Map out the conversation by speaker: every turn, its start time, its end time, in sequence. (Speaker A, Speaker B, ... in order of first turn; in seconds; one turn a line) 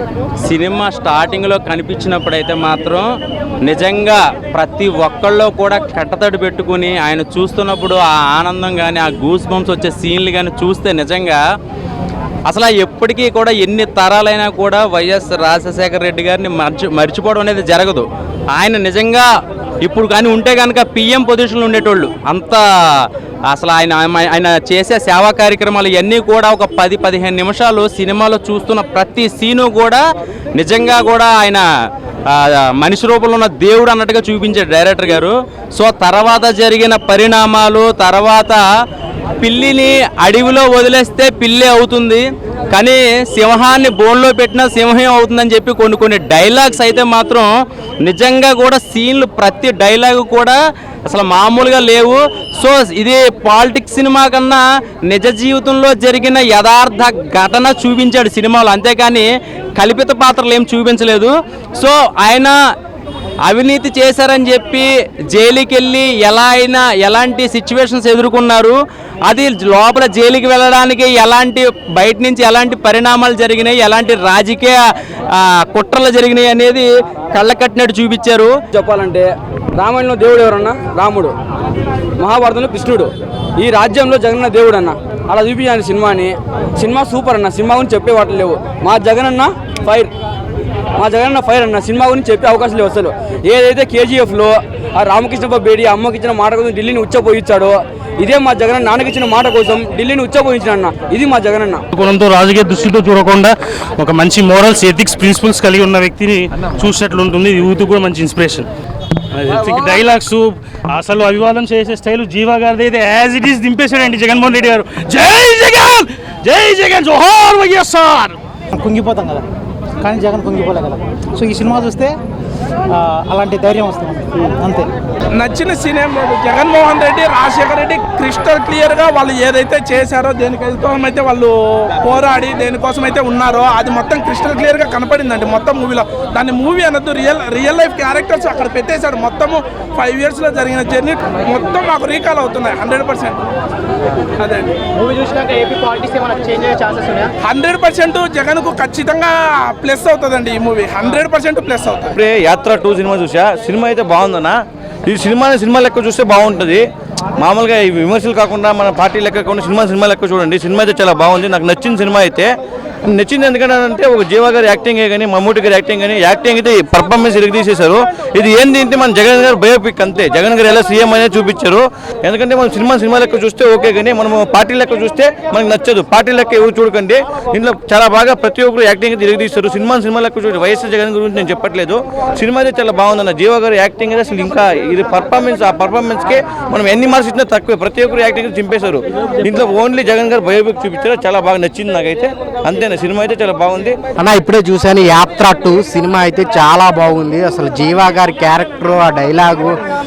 Speaker A: 0.4-3.0
Speaker A: 3.6-11.4
Speaker A: 12.5-19.2
Speaker A: 19.8-22.6
Speaker A: 23.5-30.0
Speaker A: 30.6-31.6
Speaker A: 32.3-38.6
Speaker A: 39.4-47.4
Speaker A: 48.0-50.5
Speaker A: 51.1-62.5
Speaker A: 63.5-68.7
Speaker A: 69.3-74.8
Speaker A: 75.4-78.5
Speaker B: 78.7-81.3
Speaker B: 82.2-90.1
Speaker B: 91.0-101.8
Speaker C: 101.9-108.6
Speaker C: 109.4-118.3
Speaker D: 118.8-119.4
Speaker D: 120.0-122.1
Speaker D: 123.3-124.8
Speaker E: 125.3-143.4
Speaker E: 144.4-144.8
Speaker F: 145.1-147.3
Speaker E: 147.4-152.1
Speaker G: 152.2-154.5
Speaker G: 155.1-156.8
Speaker G: 157.4-162.5
Speaker G: 163.2-193.9
Speaker H: 194.2-199.7